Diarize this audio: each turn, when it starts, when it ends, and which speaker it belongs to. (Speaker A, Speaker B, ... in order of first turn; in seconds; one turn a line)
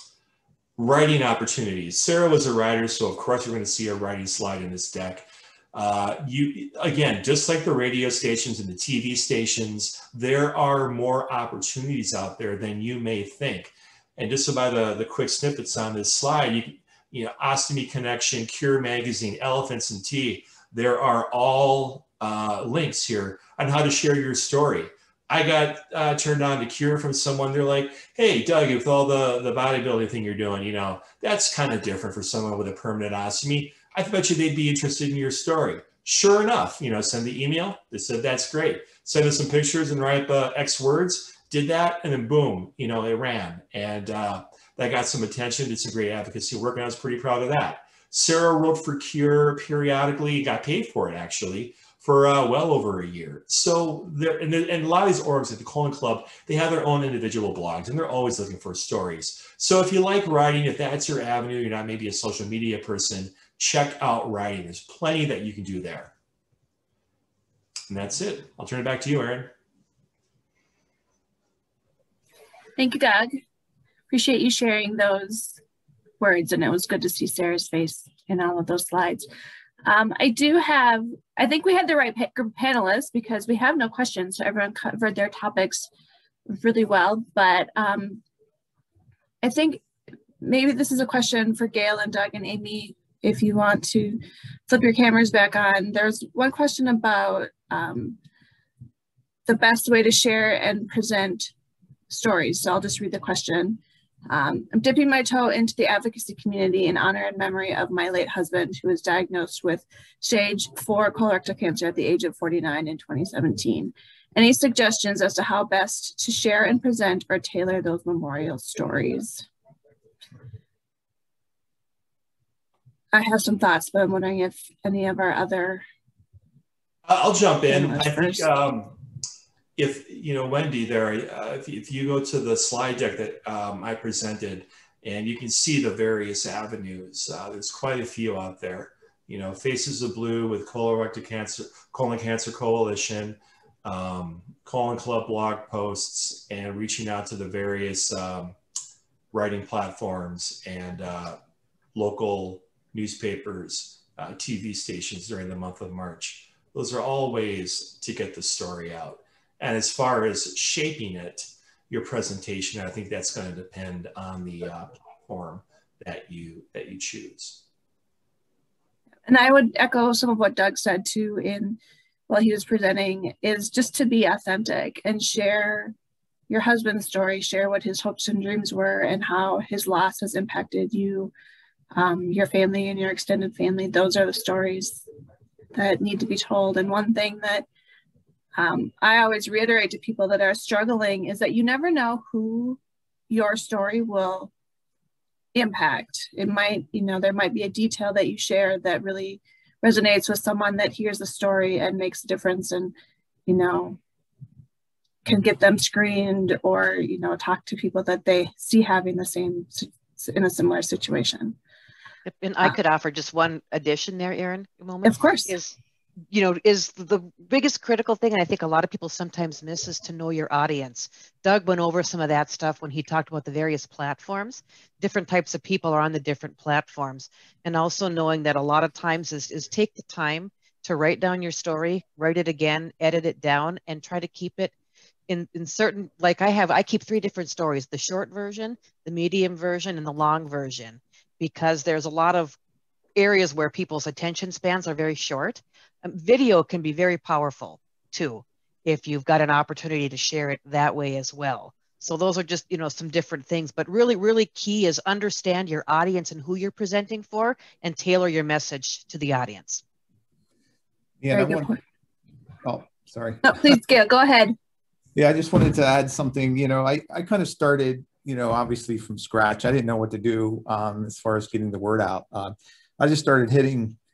Speaker A: 0.8-66.1
Speaker A: 67.9-69.5
Speaker B: 72.8-73.4
Speaker B: 74.1-75.6
Speaker B: 76.2-79.3
Speaker B: 79.8-85.9
Speaker B: 86.5-88.2
Speaker B: 89.4-89.8
Speaker B: 90.4-98.2
Speaker B: 99.5-101.5
Speaker B: 102.1-119.5
Speaker B: 123.1-125.8
Speaker A: 127.0-129.0
Speaker B: 127.7-128.5
Speaker A: 129.8-148.6
Speaker A: 149.3-151.4
Speaker A: 151.9-167.6
Speaker B: 169.2-175.9
Speaker B: 176.5-181.3
Speaker B: 181.9-185.0
Speaker B: 185.7-187.7
Speaker B: 188.6-194.5
Speaker B: 195.5-202.9
Speaker B: 203.5-204.0
Speaker B: 205.2-211.6
Speaker C: 212.3-215.8
Speaker B: 215.0-215.6
Speaker C: 216.3-234.7
Speaker C: 235.3-242.6
Speaker C: 243.2-259.8
Speaker D: 261.2-261.8
Speaker B: 261.3-261.8
Speaker D: 262.6-263.8
Speaker B: 263.4-264.6
Speaker D: 265.1-274.0